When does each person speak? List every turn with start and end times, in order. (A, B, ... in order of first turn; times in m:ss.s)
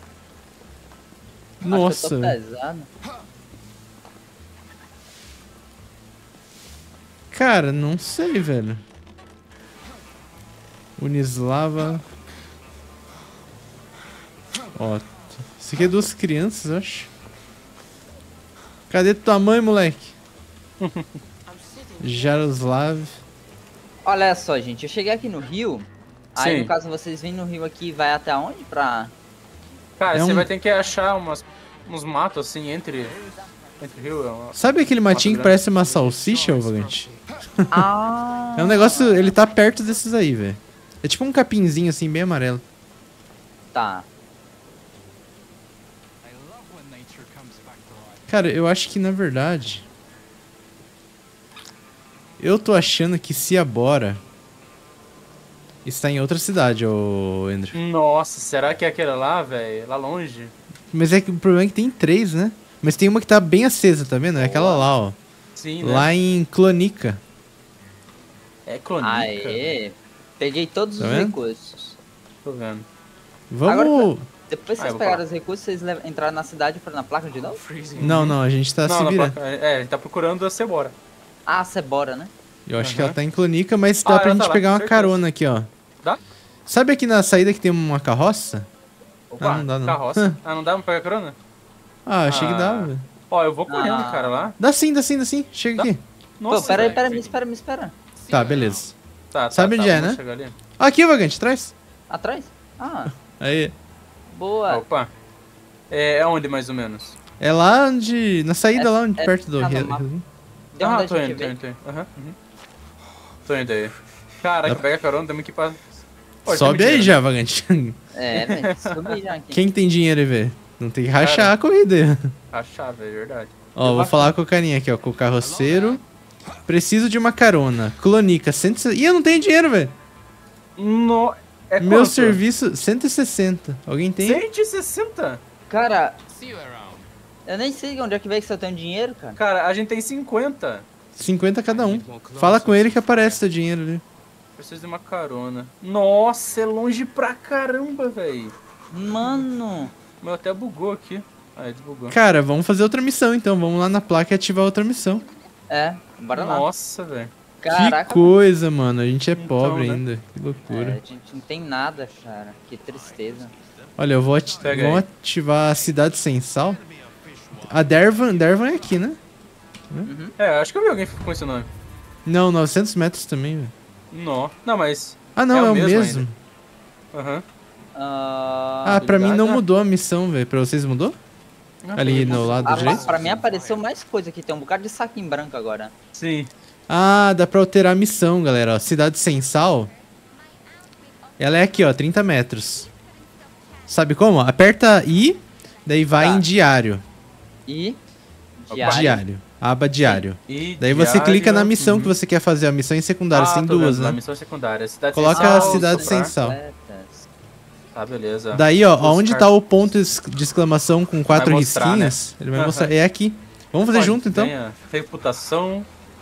0:01.6-0:02.4 A
0:01.7-0:02.9 B
0:07.3-0:08.8 A
0:11.0-0:12.0 A
0:14.8-0:17.1 A
0:18.9-0:20.1 A
0:20.8-0:21.2 C
0:21.5-0:22.4 D
0:22.0-0:23.2 A
0:24.0-0:29.1 B
0:26.4-0:26.7 C
0:30.0-0:33.2 C
0:30.1-0:30.5 A
0:33.0-0:34.0 D
0:33.8-0:35.6 C
0:34.5-0:37.9 A
0:35.7-0:37.2 D
0:37.7-0:39.4 B
0:38.6-0:42.6 A
0:43.7-0:44.1 B
0:46.2-0:48.4 D
0:48.3-0:49.8 A
0:52.4-0:54.2 A
0:55.8-0:57.8 A
0:57.7-1:00.5 C
1:00.9-1:05.2 A
1:04.3-1:04.9 B
1:05.5-1:06.1 C
1:05.8-1:07.2 A
1:08.6-1:09.7 C
1:09.0-1:12.0 B
1:11.0-1:11.4 A
1:12.4-1:12.8 C
1:13.5-1:14.3 A
1:13.6-1:17.6 B
1:14.8-1:15.2 C
1:17.3-1:18.3 D
1:17.9-1:21.0 C
1:18.0-1:19.4 A
1:21.5-1:22.3 B
1:22.7-1:25.7 A
1:22.8-1:23.2 C
1:24.0-1:25.2 C
1:26.7-1:28.7 A
1:29.3-1:31.4 C
1:29.4-1:30.4 A
1:32.0-1:33.0 A
1:32.2-1:34.6 C
1:33.7-1:34.4 B
1:34.6-1:36.0 A
1:35.8-1:37.3 C
1:36.5-1:37.9 B
1:36.5-1:37.4 D
1:38.2-1:38.9 D
1:38.3-1:38.9 A
1:39.3-1:40.5 C
1:39.5-1:40.2 A
1:40.8-1:41.7 A
1:42.1-1:43.1 B
1:43.2-1:43.7 A
1:44.3-1:44.8 B
1:44.7-1:45.1 C
1:45.9-1:47.2 C
1:47.4-1:50.2 A
1:48.8-1:50.0 B
1:50.7-1:51.5 B
1:50.8-1:52.4 C
1:53.4-1:57.1 C
1:56.5-1:58.0 A
1:58.1-1:59.7 B
1:58.3-1:59.2 C
1:59.5-2:02.3 A
2:01.2-2:01.5 C
2:02.5-2:04.3 C
2:03.7-2:06.0 A
2:05.4-2:06.0 D
2:06.7-2:09.9 A
2:10.8-2:12.4 C
2:11.8-2:14.4 A
2:14.2-2:15.4 C
2:15.7-2:16.2 B
2:16.3-2:17.1 D
2:17.4-2:19.4 B
2:19.4-2:20.8 C
2:21.1-2:24.0 A
2:21.7-2:23.4 D
2:24.6-2:28.5 C
2:28.9-2:29.9 B
2:30.2-2:32.2 C
2:32.1-2:35.2 A
2:35.7-2:36.6 B
2:36.3-2:37.3 C
2:37.6-2:38.3 B
2:37.7-2:41.0 A
2:39.4-2:40.0 C
2:40.7-2:43.5 B
2:42.9-2:45.0 D
2:44.0-2:46.8 A
2:44.6-2:45.0 C
2:45.7-2:46.0 D
2:46.6-2:49.0 D
2:47.6-2:49.2 A
2:50.0-2:50.3 B
2:50.4-2:51.7 C
2:52.2-2:53.7 A
2:54.1-2:56.2 C
2:55.4-2:56.4 A
2:57.1-2:57.4 C
2:57.9-2:59.2 B
2:58.8-3:01.2 A
2:59.0-2:59.6 C
3:01.8-3:03.0 C
3:02.0-3:03.0 A
3:02.1-3:03.8 D
3:02.6-3:05.9 B
3:06.1-3:06.5 C
3:06.9-3:09.9 A
3:11.4-3:12.9 A
3:13.9-3:17.0 A
3:16.1-3:16.4 B
3:17.7-3:18.0 B
3:18.6-3:19.2 B
3:18.7-3:19.2 C
3:18.8-3:24.2 A
3:20.5-3:22.1 C
3:23.3-3:26.3 C
3:25.1-3:26.6 A
3:25.3-3:27.3 B
3:27.9-3:29.5 C
3:28.5-3:34.5 A
3:31.3-3:32.9 C
3:33.9-3:35.9 C